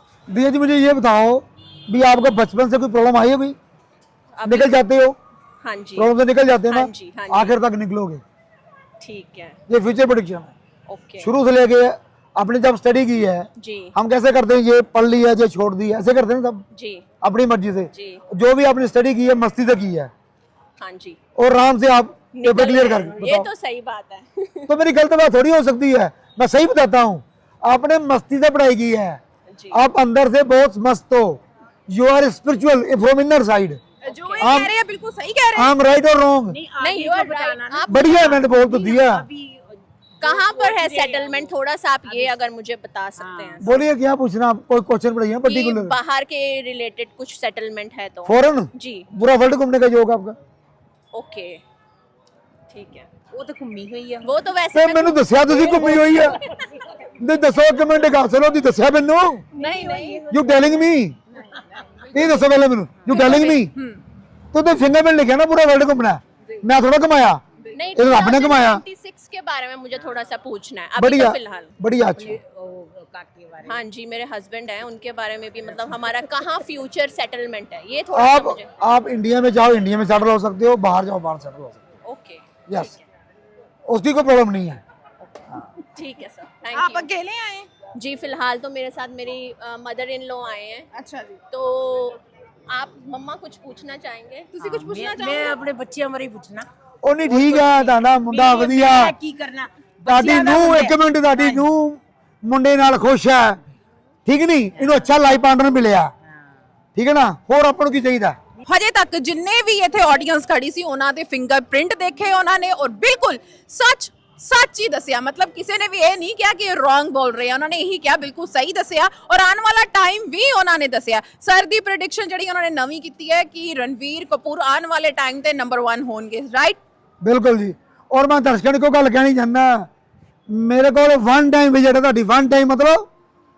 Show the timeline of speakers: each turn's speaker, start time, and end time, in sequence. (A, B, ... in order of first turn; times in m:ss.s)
0:00.3-0:03.6 A
0:04.4-0:04.8 B
0:04.4-0:05.2 A
0:05.6-0:06.1 B
0:06.0-0:08.2 A
0:06.7-0:07.6 B
0:09.0-0:09.6 B
0:09.7-0:10.5 A
0:10.9-0:11.3 B
0:11.2-0:16.6 A
0:13.6-0:13.9 B
0:16.7-0:17.1 B
0:17.2-0:20.1 A
0:17.9-0:18.2 B
0:20.8-0:21.2 B
0:21.4-0:23.5 A
0:22.3-0:24.8 B
0:24.7-0:29.2 A
0:29.5-0:29.8 B
0:29.7-0:31.4 A
0:31.9-0:33.8 A
0:34.0-0:35.7 C
0:34.1-0:34.6 B
0:34.4-0:34.7 A
0:35.6-0:36.6 A
0:36.5-0:41.5 D
0:36.8-0:38.4 B
0:37.9-0:39.2 A
0:40.2-0:43.8 B
0:42.0-0:42.4 D
0:43.2-0:43.6 D
0:43.6-0:46.0 A
0:45.4-0:49.1 B
0:48.2-0:50.4 A
0:51.1-0:51.6 B
0:52.7-0:53.1 B
0:53.3-0:54.3 D
0:54.2-0:56.7 B
0:54.7-0:56.4 A
0:57.2-0:59.5 A
0:59.6-1:00.2 B
0:59.6-1:00.2 C
0:59.9-1:00.8 D
1:00.3-1:01.2 A
1:02.1-1:03.7 A
1:03.1-1:04.0 C
1:03.4-1:03.6 B
1:04.5-1:07.4 A
1:07.7-1:11.7 B
1:08.0-1:08.8 A
1:11.0-1:12.4 A
1:12.2-1:13.8 D
1:13.6-1:18.7 B
1:18.1-1:21.8 A
1:22.0-1:23.0 B
1:23.9-1:24.8 A
1:26.0-1:27.1 B
1:26.7-1:27.8 C
1:27.9-1:30.9 B
1:30.9-1:31.4 C
1:31.5-1:34.5 B
1:34.5-1:35.6 C
1:34.6-1:36.7 D
1:37.0-1:39.1 A
1:37.3-1:41.7 D
1:40.1-1:43.6 A
1:44.2-1:46.1 A
1:44.8-1:45.1 D
1:47.0-1:48.4 A
1:48.7-2:06.8 C
2:07.2-2:09.9 A
2:10.5-2:13.0 A